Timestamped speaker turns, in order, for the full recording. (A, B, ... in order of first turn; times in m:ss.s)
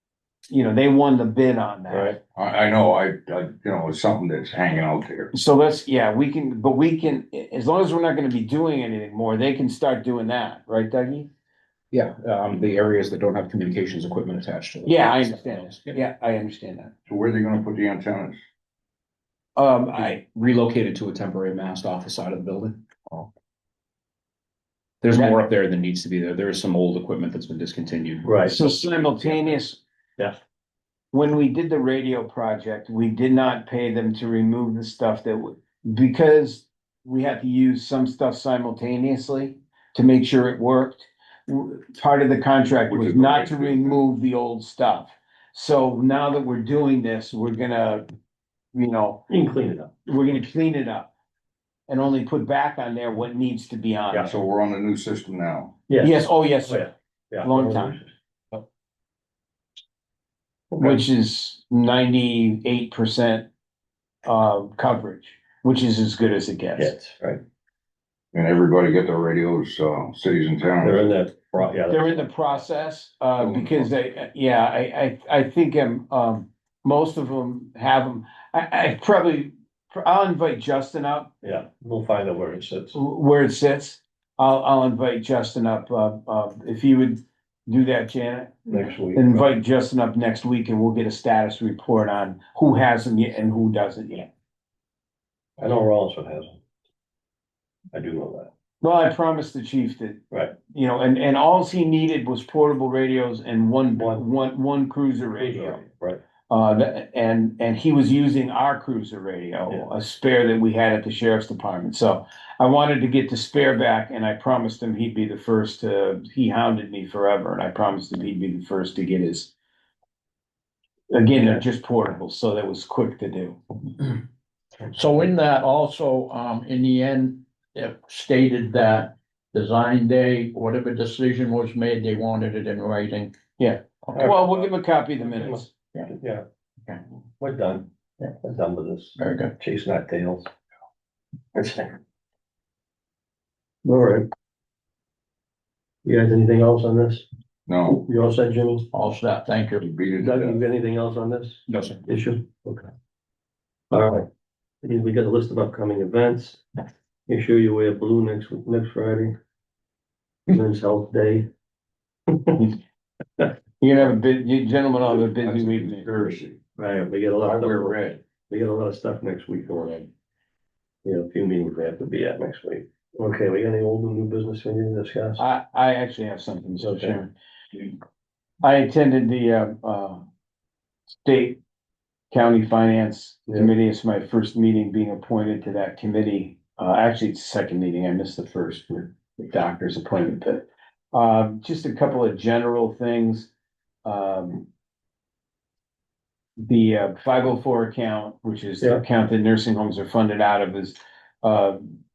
0:00.5-0:02.1 A
0:01.9-0:02.2 B
0:02.4-0:05.3 C
0:05.3-0:11.3 A
0:11.9-0:16.0 D
0:14.8-0:16.9 A
0:17.1-0:18.4 C
0:19.6-0:20.2 A
0:19.9-0:23.2 D
0:25.0-0:28.7 D
0:28.2-0:28.6 B
0:28.4-0:29.8 A
0:31.1-0:48.0 A
0:42.9-0:44.0 C
0:48.7-0:49.3 A
0:49.3-0:49.9 B
0:50.0-0:51.1 A
0:51.9-0:54.3 A
0:54.2-0:55.7 C
0:55.9-0:58.1 B
0:56.0-0:56.8 A
0:57.4-0:58.0 A
1:00.7-1:01.0 B
1:00.8-1:03.5 A
1:04.2-1:06.9 A
1:06.8-1:07.4 B
1:08.3-1:11.0 C
1:10.8-1:12.2 B
1:11.9-1:21.3 A
1:13.4-1:13.9 C
1:21.4-1:23.0 B
1:22.9-1:34.3 A
1:28.7-1:29.4 B
1:35.6-1:36.6 B
1:37.9-1:38.5 B
1:38.8-1:45.8 A
1:44.0-1:44.2 B
1:45.4-1:46.2 B
1:46.5-1:59.5 A
2:01.1-2:03.6 A
2:04.9-2:13.4 E
2:13.6-2:15.7 A
2:14.1-2:14.6 B
2:15.2-2:20.5 B
2:19.2-2:19.5 E
2:21.5-2:22.0 B
2:23.8-2:24.3 B
2:26.0-2:27.2 B
2:27.7-2:28.0 C
2:27.8-2:28.9 B
2:28.9-2:29.8 E
2:29.8-2:30.6 C
2:30.2-2:32.9 B
2:31.7-2:32.0 D
2:33.9-2:34.2 B
2:34.8-2:36.6 B
2:37.3-2:39.3 B
2:40.5-2:41.5 B
2:42.3-2:42.6 B
2:43.8-2:46.1 A
2:45.4-2:46.6 C
2:46.8-2:50.1 B
2:47.4-2:48.2 C
2:51.0-2:55.4 B
2:55.4-2:57.3 A
2:56.8-2:57.1 B
2:58.6-3:00.2 A
3:01.2-3:01.6 A
3:02.3-3:13.5 A
3:14.0-3:14.6 A
3:16.6-3:22.0 A